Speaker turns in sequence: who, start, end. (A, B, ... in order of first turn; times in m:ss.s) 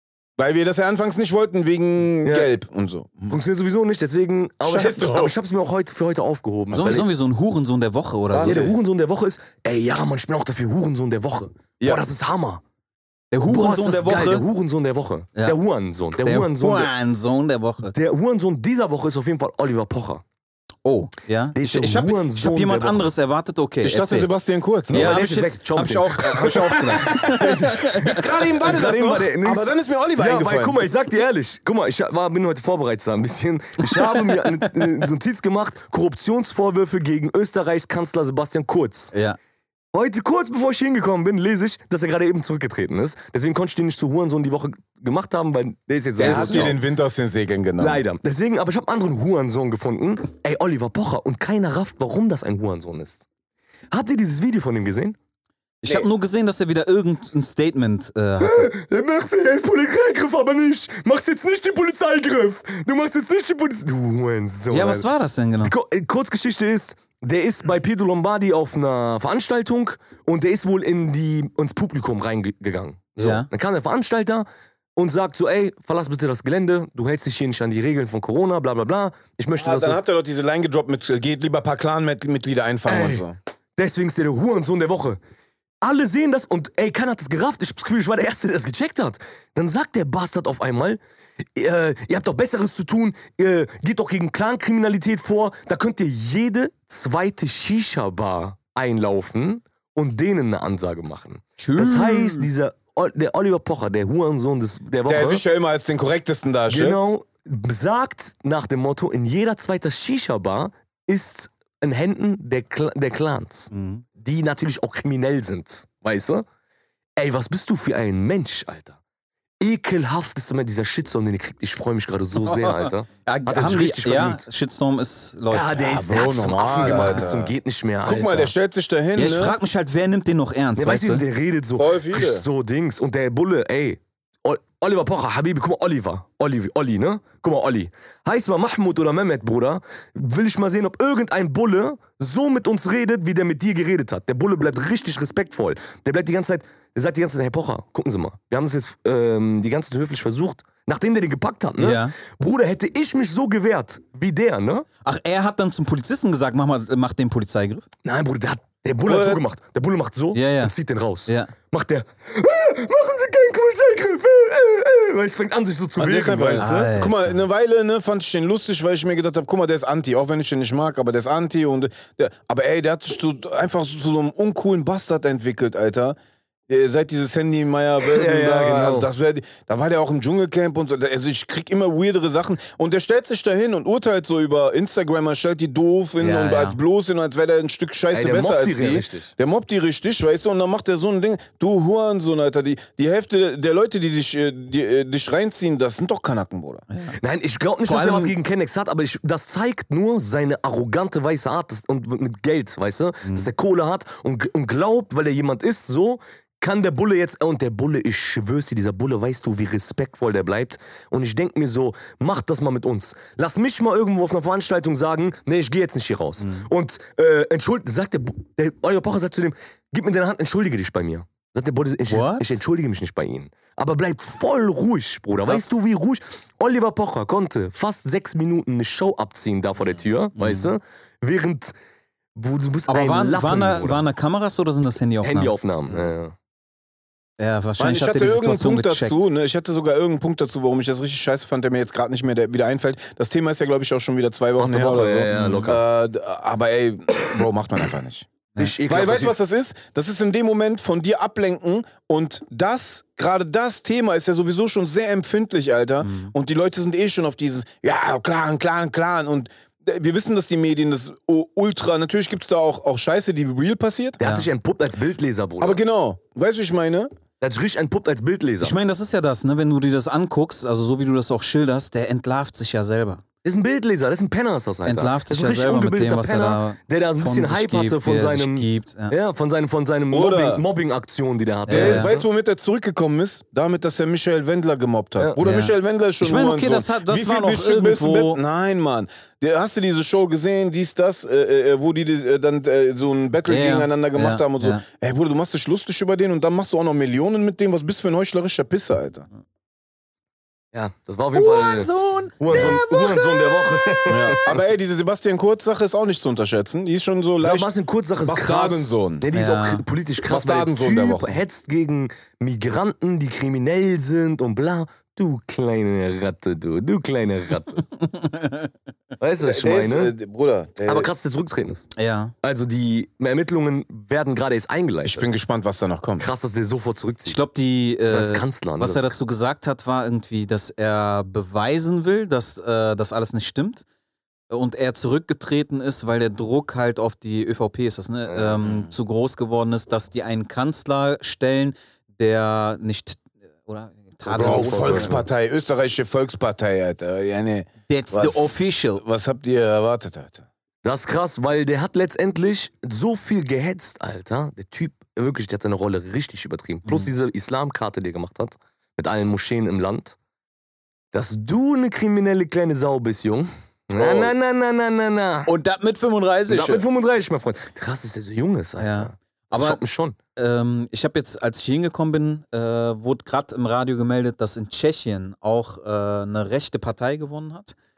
0:00.4-0:03.4 A
0:02.2-0:02.5 B
0:03.3-0:07.1 B
0:04.6-0:05.3 A
0:06.7-0:08.7 C
0:08.3-0:08.7 A
0:08.4-0:12.6 B
0:13.3-0:14.4 C
0:13.4-0:16.9 B
0:16.2-0:17.9 C
0:17.9-0:20.2 B
0:20.8-0:24.3 C
0:21.5-0:23.1 B
0:23.8-0:25.2 A
0:24.9-0:28.2 C
0:24.9-0:39.1 B
0:26.4-0:30.8 A
0:39.1-0:39.4 C
0:39.9-0:46.8 B
0:46.2-0:46.7 C
0:46.2-0:48.0 A
0:47.8-0:53.3 B
0:53.9-0:55.2 B
0:55.8-0:58.7 C
0:58.4-1:05.1 B
1:04.7-1:05.7 C
1:05.6-1:20.0 B
1:13.2-1:13.5 C
1:19.6-1:23.3 A
1:22.8-1:23.2 B
1:23.8-1:25.2 B
1:25.8-1:45.4 B
1:41.6-1:42.5 C
1:45.1-1:47.0 A
1:46.7-1:56.4 B
1:53.7-1:54.0 C
1:57.2-1:59.0 B
1:59.6-2:04.4 B
2:02.4-2:06.0 C
2:05.5-2:08.5 B
2:05.7-2:09.6 A
2:06.8-2:07.3 C
2:09.2-2:11.2 C
2:10.8-2:34.8 B
2:11.8-2:12.4 A
2:31.8-2:32.1 C
2:35.0-2:37.8 C
2:38.0-2:46.9 B
2:39.0-2:39.4 A
2:40.3-2:40.7 C
2:41.2-2:41.5 C
2:46.0-2:56.2 A
2:46.6-2:47.4 C
2:56.7-3:16.8 A
2:58.0-2:59.1 B
3:06.2-3:06.8 C
3:08.1-3:09.3 B
3:16.9-3:17.2 C
3:17.2-3:51.7 B
3:17.8-3:18.3 C
3:23.2-3:23.5 C
3:36.4-3:36.7 C
3:42.1-3:42.6 C
3:45.4-3:45.8 C
3:50.4-3:50.7 C
3:52.3-3:54.0 B
3:52.9-3:55.5 C
3:55.2-3:56.3 B
3:57.4-3:59.3 C
3:57.8-4:08.3 A
4:04.6-4:05.8 B
4:05.3-4:05.7 C
4:08.6-4:09.4 B
4:08.9-4:24.2 A
4:16.0-4:16.3 C
4:24.2-4:25.8 B
4:24.2-4:24.5 C
4:25.6-4:27.1 A
4:27.4-4:28.8 B
4:28.6-4:33.2 C
4:33.4-4:42.3 B
4:34.8-4:39.1 C
4:40.1-4:40.6 A
4:41.7-4:42.1 C
4:41.7-4:59.3 A
4:45.4-4:48.4 C
4:53.5-4:54.8 C
5:00.7-5:04.6 B
5:01.3-5:03.7 C
5:04.1-5:07.7 A
5:07.4-5:17.8 B
5:08.2-5:09.2 A
5:09.3-5:09.8 C
5:10.2-5:11.4 A
5:18.0-5:18.7 C
5:19.2-5:20.1 B
5:19.4-5:21.1 A
5:20.8-5:21.9 B
5:22.0-5:22.3 C
5:22.4-5:25.3 B
5:25.0-5:26.3 A
5:26.2-5:27.4 B
5:27.2-5:33.8 C
5:28.1-5:29.3 B
5:34.5-5:45.2 C
5:38.3-5:38.8 B
5:44.2-5:45.2 B
5:44.3-5:50.4 A
5:47.9-5:49.0 C
5:50.8-6:00.2 B
5:56.8-5:57.1 C
6:01.1-6:05.5 B
6:04.0-6:04.3 A
6:05.5-6:06.8 C
6:06.5-6:10.2 B
6:08.8-6:09.8 C
6:10.4-6:17.8 C